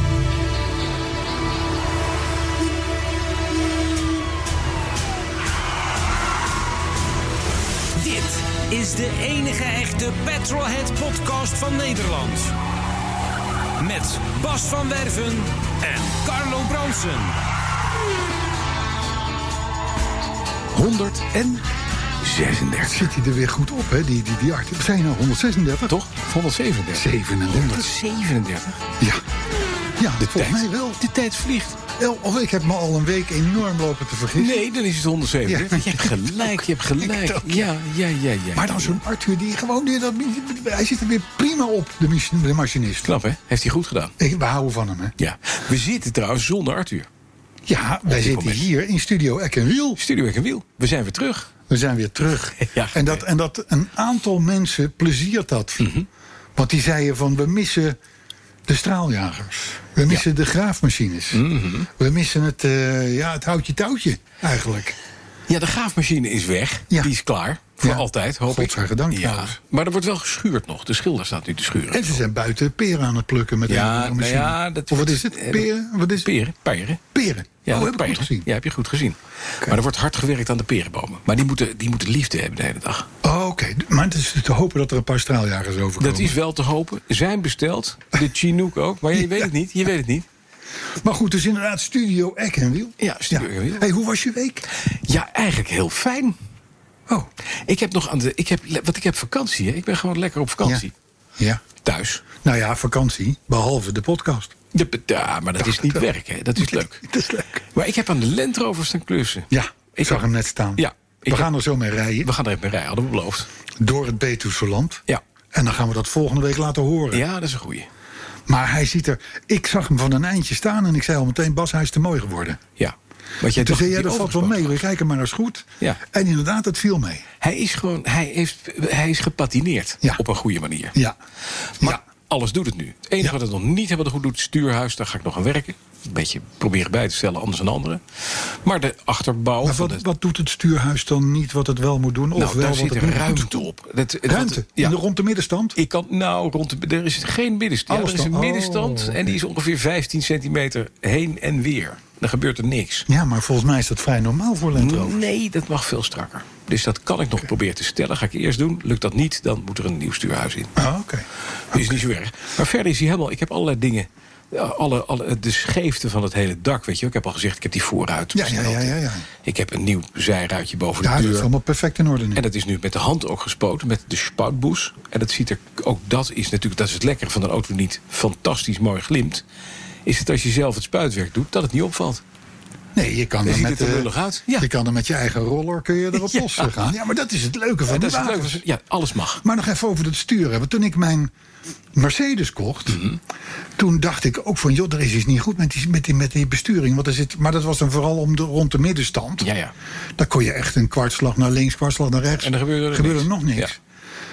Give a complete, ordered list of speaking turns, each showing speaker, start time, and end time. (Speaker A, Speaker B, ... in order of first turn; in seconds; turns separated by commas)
Speaker A: 8.0-12.6, Speaker A: 13.8-17.3, Speaker B: 20.7-21.6, Speaker B: 22.2-23.1, Speaker C: 22.8-25.9, Speaker B: 25.9-28.8, Speaker C: 26.9-27.9, Speaker C: 30.0-31.0, Speaker B: 30.2-31.8, Speaker C: 32.0-34.6, Speaker B: 34.4-39.0, Speaker C: 35.5-37.7, Speaker C: 38.5-43.1, Speaker B: 43.0-44.1, Speaker C: 44.2-45.1, Speaker B: 45.2-47.1, Speaker C: 47.7-50.0, Speaker B: 48.1-48.7, Speaker B: 50.0-51.5, Speaker C: 51.7-55.9, Speaker B: 52.6-53.2, Speaker B: 55.8-56.1, Speaker C: 56.6-58.0, Speaker C: 58.7-61.4, Speaker B: 61.3-61.9, Speaker C: 62.0-65.0, Speaker B: 65.5-72.2, Speaker C: 67.8-69.6, Speaker C: 71.9-76.3, Speaker B: 73.7-77.0, Speaker C: 77.1-78.5, Speaker B: 77.7-83.1, Speaker C: 83.2-86.3, Speaker B: 86.0-90.3, Speaker C: 89.1-89.5, Speaker C: 91.0-94.7, Speaker B: 93.0-93.9, Speaker B: 94.7-96.4, Speaker B: 97.7-100.9, Speaker C: 101.4-101.6, Speaker B: 101.8-102.2, Speaker C: 102.4-104.5, Speaker B: 104.7-107.0, Speaker C: 105.6-107.7, Speaker B: 107.7-111.5, Speaker C: 109.5-112.3, Speaker B: 112.2-113.5, Speaker C: 113.8-117.2, Speaker B: 117.1-117.9, Speaker C: 118.5-122.6, Speaker B: 122.8-124.8, Speaker C: 123.5-127.3, Speaker B: 127.4-131.0, Speaker B: 131.8-140.0, Speaker C: 139.6-143.6, Speaker B: 142.4-145.0, Speaker C: 144.3-145.8, Speaker B: 145.8-153.1, Speaker C: 147.9-149.4, Speaker C: 153.1-155.2, Speaker B: 154.8-160.8, Speaker C: 160.8-162.0, Speaker B: 161.7-171.5, Speaker C: 168.3-169.3, Speaker C: 171.0-172.4, Speaker B: 172.4-179.4, Speaker B: 180.1-182.2, Speaker C: 182.9-188.6, Speaker B: 183.4-184.7, Speaker B: 186.1-186.7, Speaker B: 187.9-189.4, Speaker C: 189.4-191.3, Speaker C: 191.9-193.0, Speaker B: 192.9-193.2, Speaker C: 193.8-199.5, Speaker B: 199.4-199.7, Speaker C: 200.2-203.8, Speaker B: 202.4-203.7